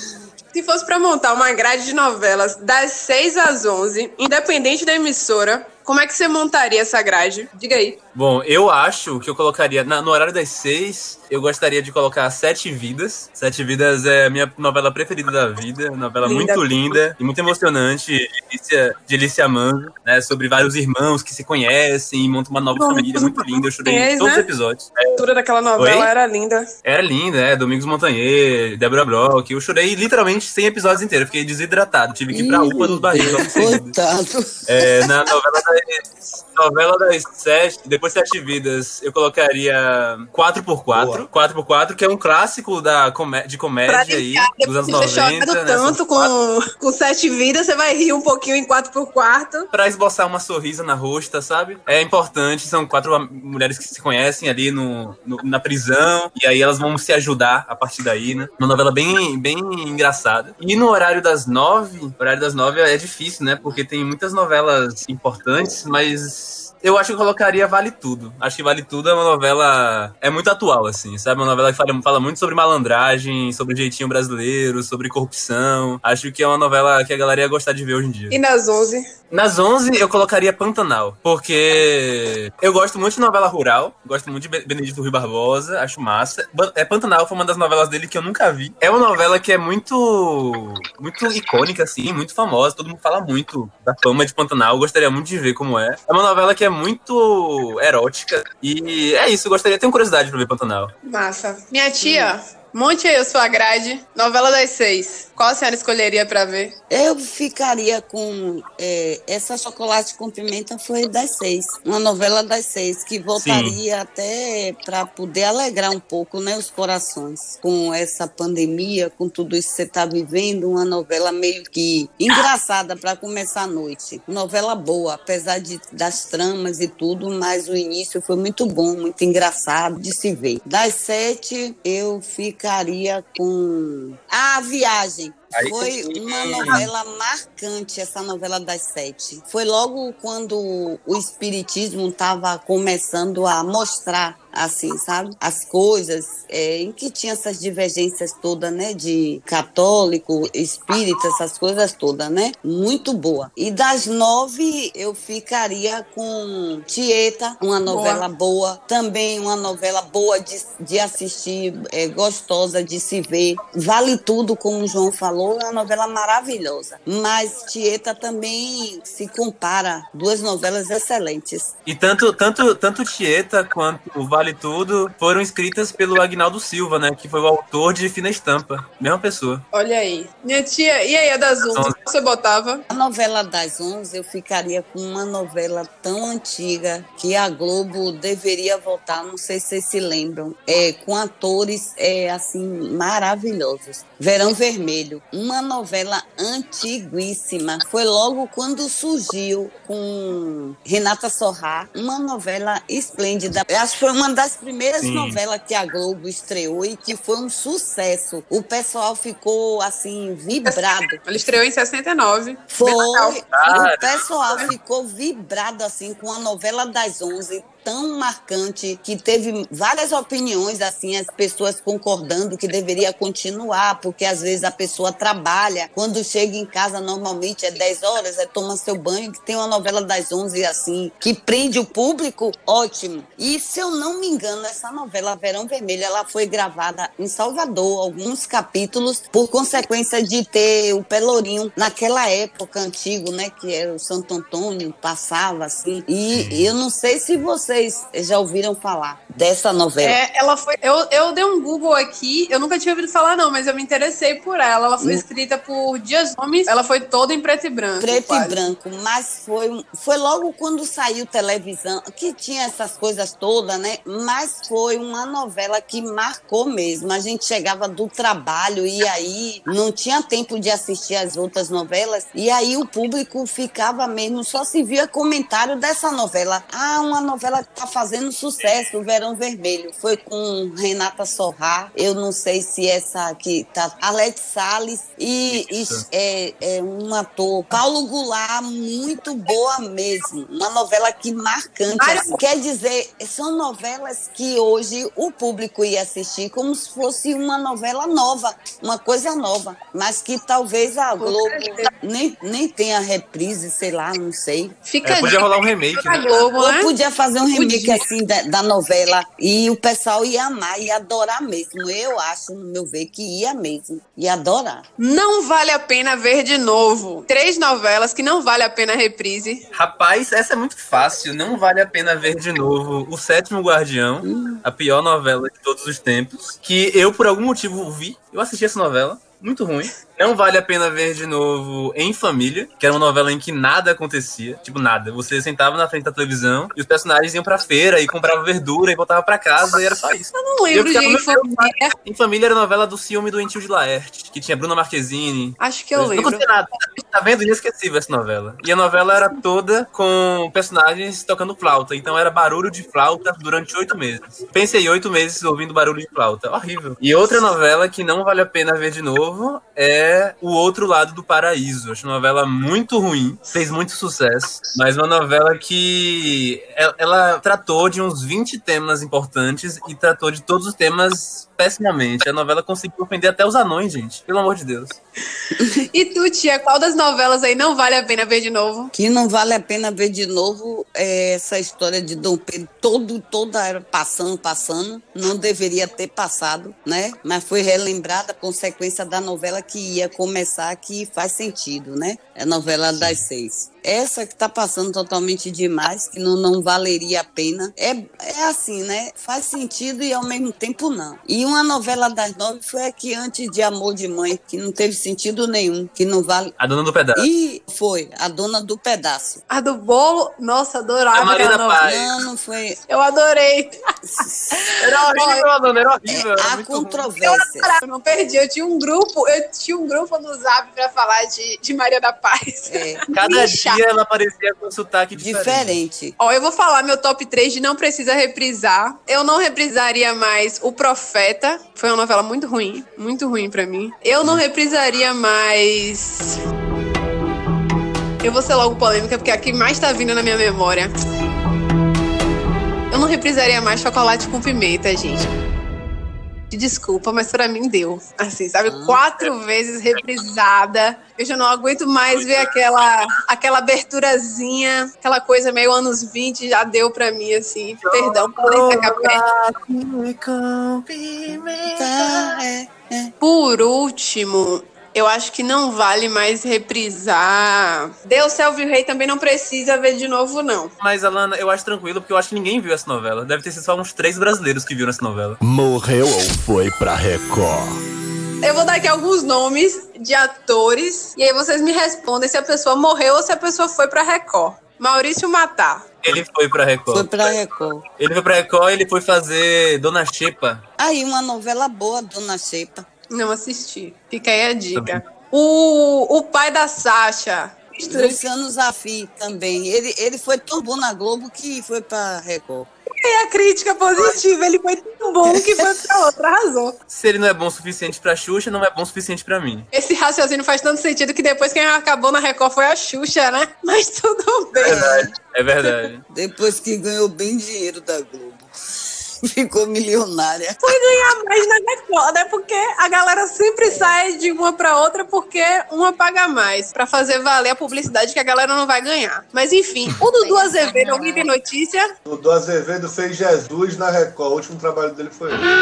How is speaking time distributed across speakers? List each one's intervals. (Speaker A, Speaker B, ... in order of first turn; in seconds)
Speaker A: 0.5-8.0, 16.2-17.0, 22.8-24.5, 25.1-26.7, 43.9-49.7, 78.3-79.0, 101.0-106.7, 157.8-158.2, 179.7-182.8, 210.6-213.4, 250.0-258.6, 292.0-292.4, 301.2-301.9, 304.9-306.9, 307.5-308.0, 315.0-319.6, 340.3-341.9, 345.6-346.4, 375.9-378.9, 409.5-411.8, 412.9-414.3, 415.1-415.4, 417.2-423.8, 426.2-436.4, 438.2-440.9, 442.9-445.3, 446.5-459.2, 463.2-470.7, 478.4-485.9, 493.1-498.2, 502.9-506.8, 509.7-515.0, 520.6-531.9
Speaker B: 8.1-25.2, 25.8-26.1, 26.8-33.9, 34.7-46.3, 49.7-78.4, 79.3-100.9, 113.4-113.8, 135.5-136.9, 171.8-179.6, 181.7-181.9, 205.0-205.4, 213.5-214.3, 246.3-246.7, 285.5-286.0, 305.0-306.4, 319.7-375.0, 392.9-393.2, 406.6-407.2, 411.1-412.1, 414.8-417.1, 423.1-425.8, 452.1-452.8, 457.8-462.4, 470.8-475.4, 486.0-487.3, 488.0-490.6, 494.8-495.0, 506.9-509.7, 514.6-516.0
Speaker C: 32.3-35.1, 102.0-102.3, 106.9-171.7, 182.9-211.2, 212.7-250.2, 258.0-304.8, 306.6-314.8, 324.2-324.6, 375.5-375.9, 378.9-406.5, 407.1-409.4, 411.8-412.8, 414.1-414.8, 416.1-417.7, 422.7-423.0, 425.1-426.1, 448.6-449.0, 461.7-463.1, 486.9-487.8, 490.8-492.9, 497.9-502.7, 505.3-505.6, 514.6-515.1, 516.1-518.5, 519.3-520.8, 523.6-523.9, 530.0-531.3
Speaker D: 40.9-41.3, 532.0-535.4
Speaker E: 475.4-477.7